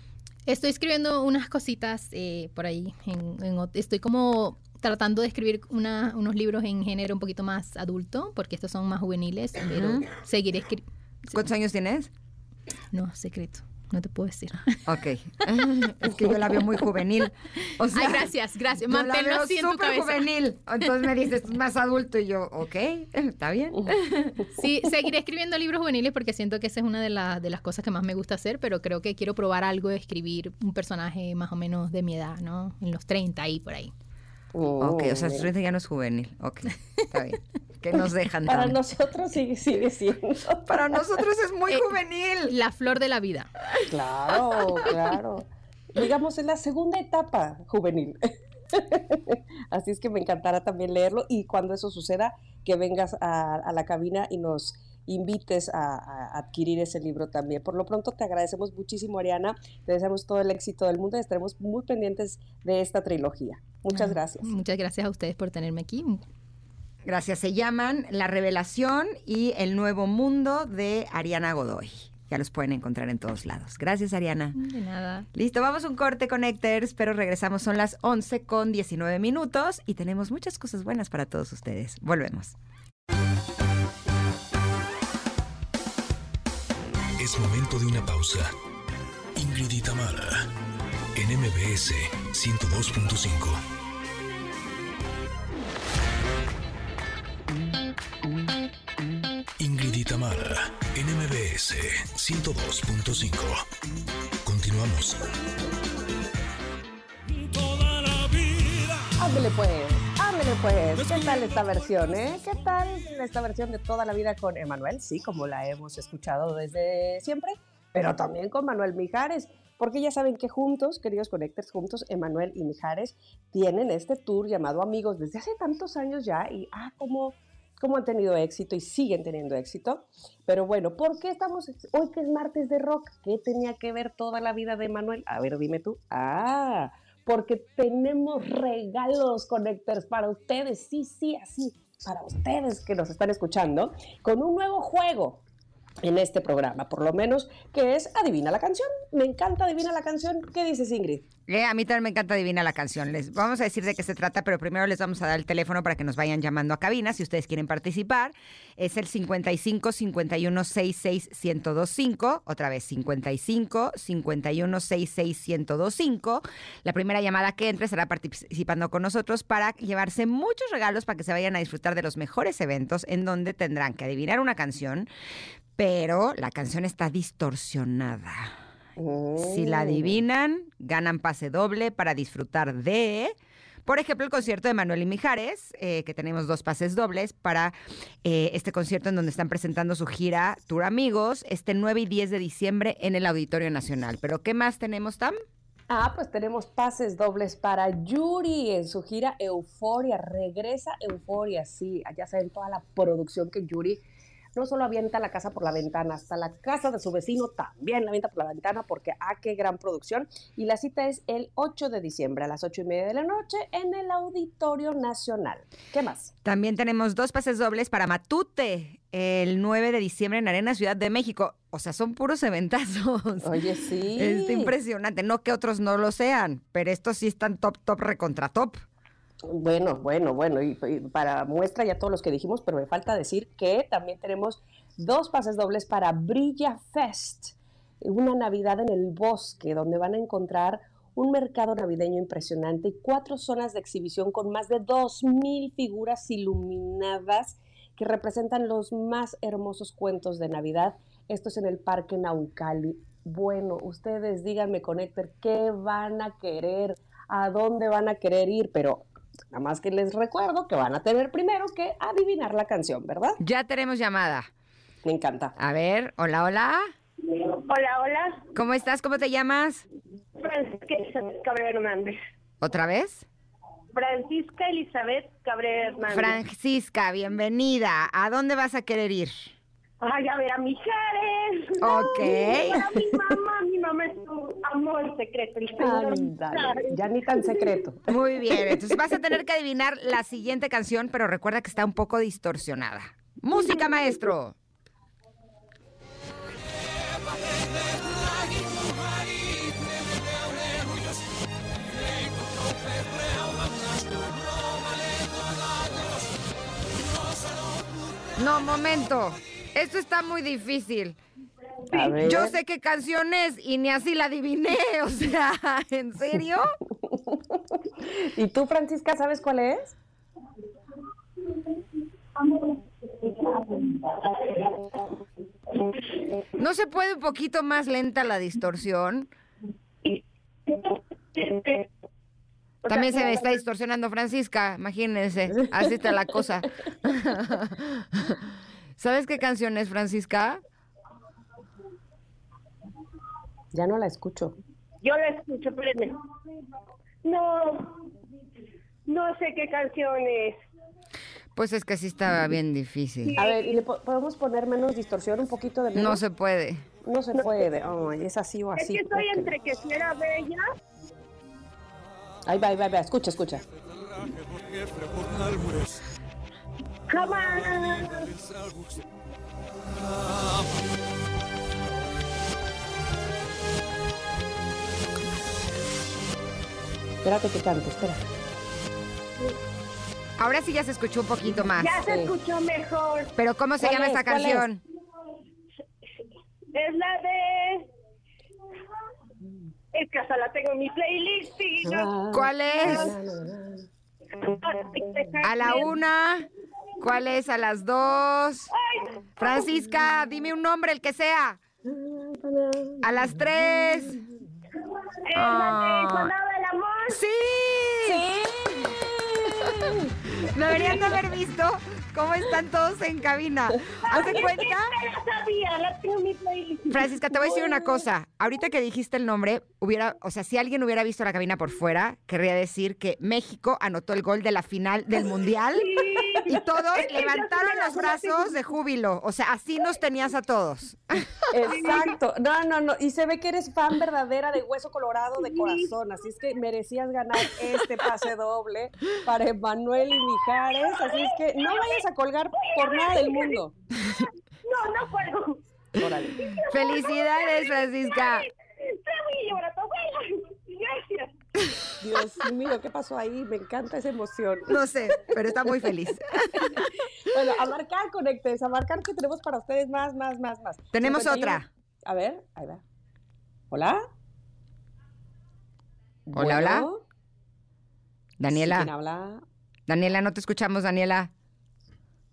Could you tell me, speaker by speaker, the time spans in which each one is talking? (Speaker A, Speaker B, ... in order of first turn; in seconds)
Speaker A: 0.5-11.4, 12.9-14.8, 17.9-20.3, 24.6-33.9, 42.5-43.5, 64.4-66.2, 74.5-75.3
Speaker B: 9.7-10.1, 11.3-12.1, 14.8-24.4, 34.8-38.8, 40.6-42.6, 67.0-74.6, 75.3-82.5, 151.5-175.1, 175.8-178.6, 179.4-195.4, 216.4-223.6, 224.1-228.8, 263.4-264.5, 265.6-266.9, 268.5-269.8, 272.6-273.3, 276.1-279.5, 281.8-282.8, 288.1-294.6, 308.4-311.2, 312.2-316.7, 326.6-329.3, 332.9-338.4, 339.0-340.6, 351.6-353.4, 355.9-356.9, 380.4-382.0, 383.4-384.8, 392.3-393.1, 395.4-396.5, 397.0-398.7, 399.4-401.6, 403.0-404.2, 405.3-406.3, 407.1-408.2, 410.4-414.9, 416.9-431.3, 446.6-448.5, 454.7-456.8, 460.9-461.7, 466.3-466.9, 468.4-468.9, 469.9-471.3
Speaker C: 23.7-24.5, 34.5-35.5, 38.5-40.7, 43.9-64.5, 109.2-145.4, 146.0-151.2, 179.0-180.2, 195.9-204.0, 204.6-216.3, 223.4-224.7, 229.5-263.4, 265.0-265.5, 285.8-288.1, 311.9-312.5, 317.0-319.9, 343.7-344.5, 353.4-356.2, 357.0-359.5, 362.4-363.6, 377.2-378.2, 381.4-382.3, 383.8-384.6, 391.8-393.9, 401.8-403.1, 408.0-410.1, 431.5-443.7, 446.0-446.5, 452.0-454.8, 456.6-462.8, 463.7-464.0, 466.3-467.0, 468.5-469.4
Speaker D: 87.2-88.5, 89.3-90.5, 91.1-93.6, 99.6-103.7, 104.4-105.2, 107.8-108.2
Speaker E: 267.2-268.4, 270.4-272.2, 273.9-276.3, 280.0-287.7, 322.4-326.4, 330.0-331.9, 332.8-333.4, 345.0-346.2, 347.2-348.0, 349.1-350.6, 353.2-353.8, 357.4-357.6, 358.8-360.6, 367.1-368.3, 381.8-383.3, 386.7-387.9, 389.9-392.1, 394.3-395.9, 398.7-399.6, 405.2-407.2, 414.1-417.0, 425.8-428.5, 431.7-432.1, 435.4-435.9, 440.4-442.0, 442.6-443.6, 444.6-445.6, 446.3-451.3